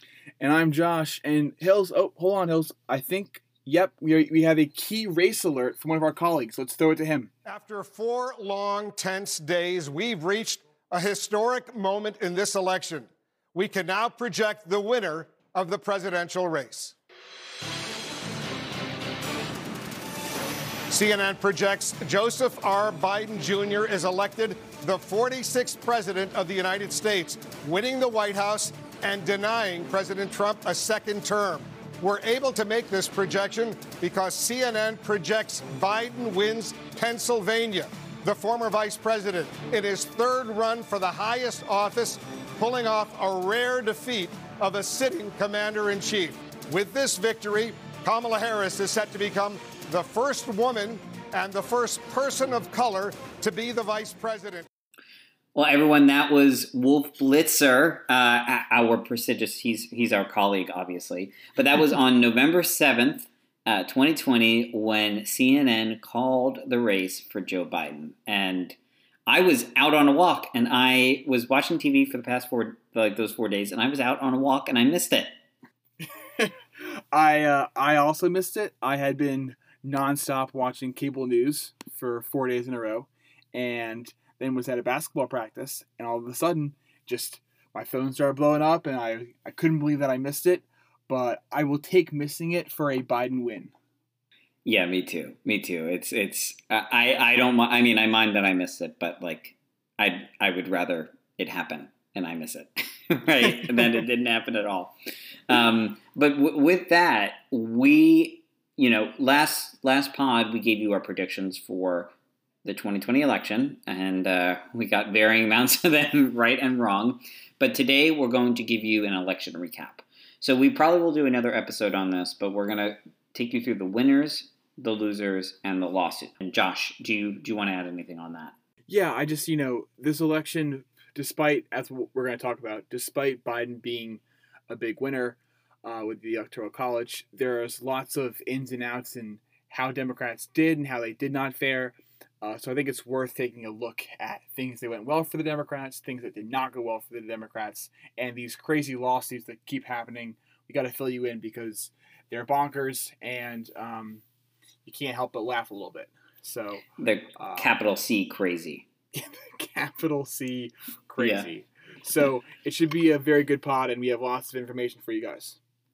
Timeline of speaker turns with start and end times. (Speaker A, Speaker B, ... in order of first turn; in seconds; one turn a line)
Speaker A: 0.4-7.3
Speaker B: 7.5-17.0
Speaker B: 20.9-54.7
Speaker C: 55.5-68.8
Speaker C: 69.3-75.3
Speaker A: 76.4-93.7
Speaker C: 94.7-104.9
Speaker C: 105.5-112.1
Speaker C: 112.7-128.6
Speaker A: 128.9-154.2
Speaker A: 154.9-156.8
Speaker C: 157.0-158.9
Speaker A: 157.4-157.7
Speaker A: 159.1-165.6
Speaker C: 161.2-161.5